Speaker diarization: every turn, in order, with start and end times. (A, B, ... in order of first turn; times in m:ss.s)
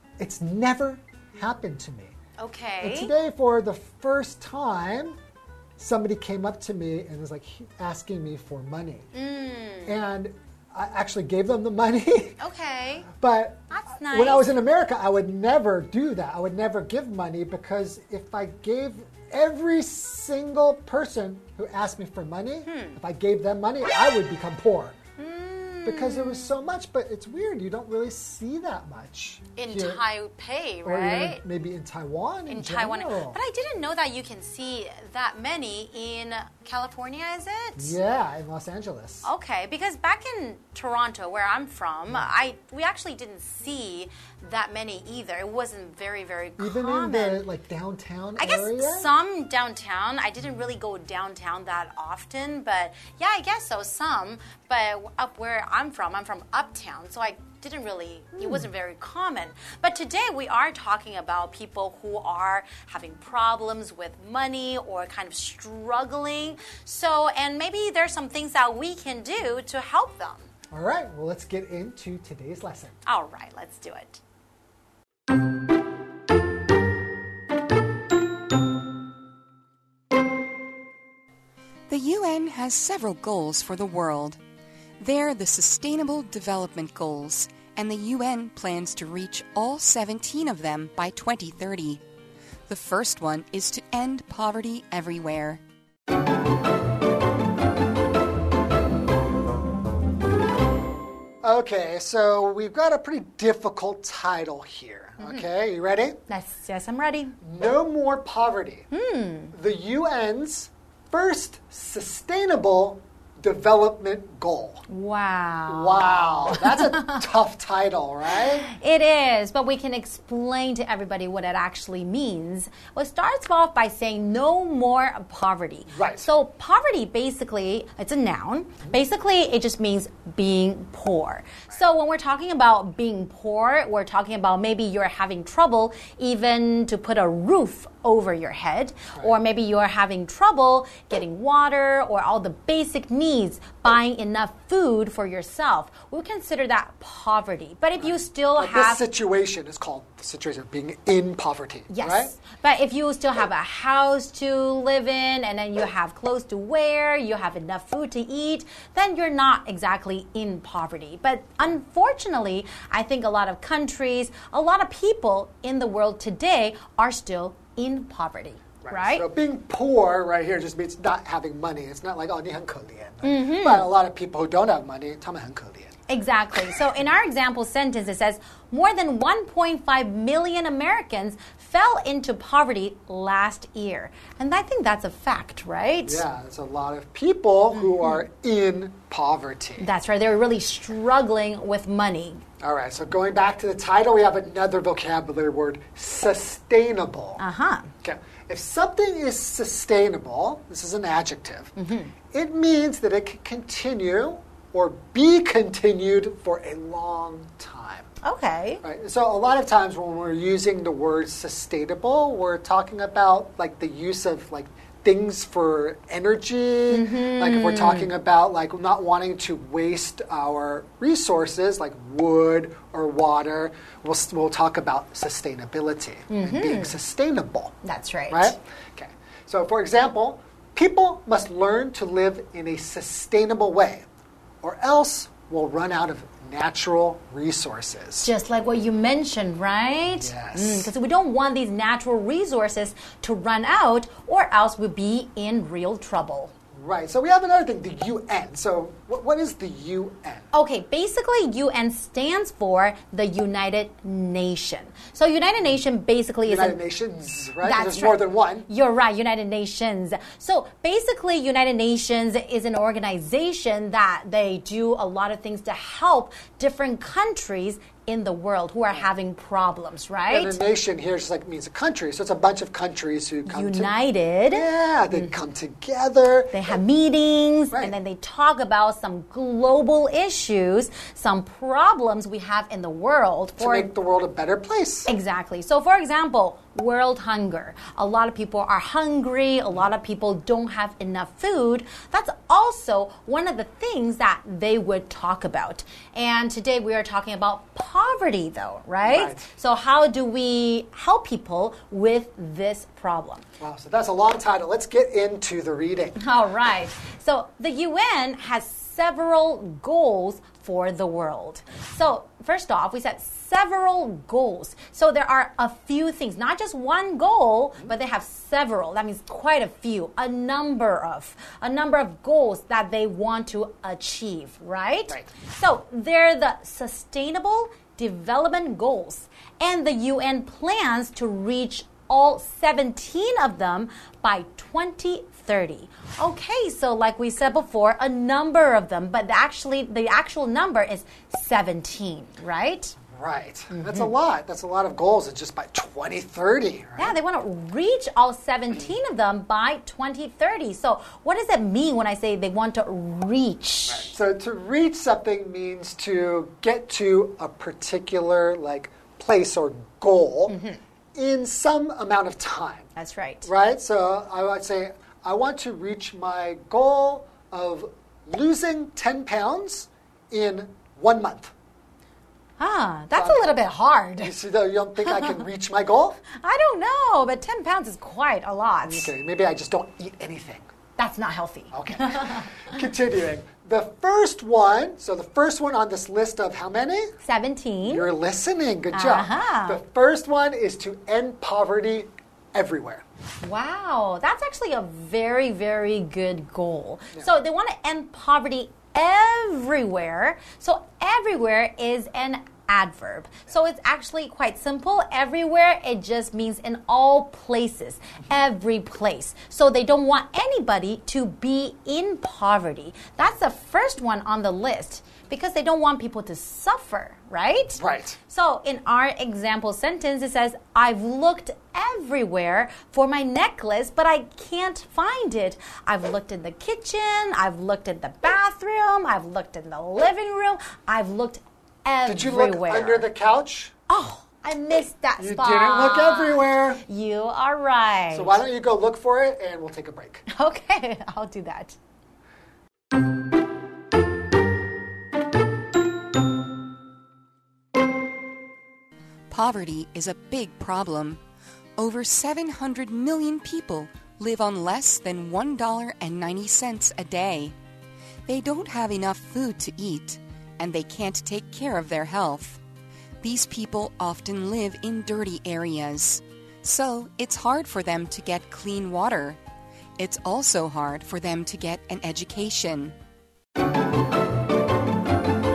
0:00.2-0:02.1 A
0:02.4-0:03.1 B
0:02.8-0:05.2 A
0:05.8-0:09.1 A
0:09.1-0:10.0 B
0:09.9-0:12.4 A
0:12.4-0:13.1 B
0:13.2-0:25.0 A
0:13.7-0:14.5 B
0:22.7-0:23.0 B
0:25.2-0:26.6 B
0:25.8-0:30.0 A
0:29.6-0:31.4 B
0:30.8-0:33.4 A
0:32.5-0:38.0 B
0:37.8-0:39.3 A
0:39.2-0:47.5 B
0:46.6-0:49.1 A
0:48.4-1:10.5 B
0:58.4-0:58.7 A
1:10.7-1:13.0 A
1:13.1-1:14.2 B
1:21.9-1:24.4 C
1:25.0-1:32.0 C
1:32.7-1:35.6 C
1:41.4-1:46.2 A
1:45.2-1:45.5 B
1:46.3-1:47.4 B
1:47.4-1:48.9 A
1:48.9-1:49.6 B
1:49.5-1:54.8 A
1:54.9-1:57.2 B
1:55.7-1:58.7 A
1:58.4-2:29.0 B
2:05.9-2:06.3 A
2:28.0-2:32.4 A
2:31.9-2:49.2 B
2:48.8-2:55.9 A
2:53.2-2:53.9 B
2:56.1-3:06.2 B
3:06.0-3:09.9 A
3:07.7-3:08.2 B
3:09.8-3:12.4 B
3:12.6-3:17.4 A
3:17.4-3:17.9 B
3:18.0-3:21.7 A
3:21.8-3:22.1 B
3:22.3-3:28.1 A
3:28.2-3:28.8 B
3:28.8-3:47.7 A
3:36.9-3:38.1 B
3:46.3-3:46.9 B
3:47.8-3:48.6 B
3:48.3-3:54.1 A
3:54.6-3:58.3 A
3:58.2-4:06.5 B
4:00.1-4:00.9 A
4:06.7-4:10.5 A
4:10.5-4:16.8 B
4:16.4-4:18.7 A
4:17.6-4:30.6 B
4:30.3-4:33.9 A
4:33.5-4:35.4 B
4:34.5-4:36.6 A
4:36.5-4:43.9 B
4:43.6-4:45.1 A
4:45.1-5:03.4 B
4:59.0-4:59.5 A
5:03.6-5:06.2 A
5:06.2-5:43.0 B
5:43.1-5:47.2 A
5:43.7-5:44.1 B
5:47.0-5:54.1 B
5:53.9-6:00.6 A
6:00.5-6:00.8 B
6:01.2-6:02.9 A
6:03.0-6:03.5 B
6:03.4-6:11.5 A
6:12.6-6:14.3 B
6:13.1-6:13.5 A
6:14.2-6:16.2 A
6:15.1-6:15.4 B
6:16.4-6:19.1 B
6:18.8-6:20.7 A
6:21.0-6:22.7 B
6:21.7-6:27.1 A
6:27.2-6:28.1 B
6:27.8-6:33.0 A
6:28.9-6:29.8 B
6:33.4-7:13.1 B
6:57.8-6:58.2 A
7:12.1-7:13.7 A
7:13.9-7:18.4 B
7:15.2-7:16.8 A
7:18.1-7:20.3 A
7:20.3-7:21.8 B
7:29.3-7:31.2 C
7:31.8-7:37.5 C
7:38.3-7:42.6 C
7:43.2-7:49.4 C
7:50.0-7:53.0 C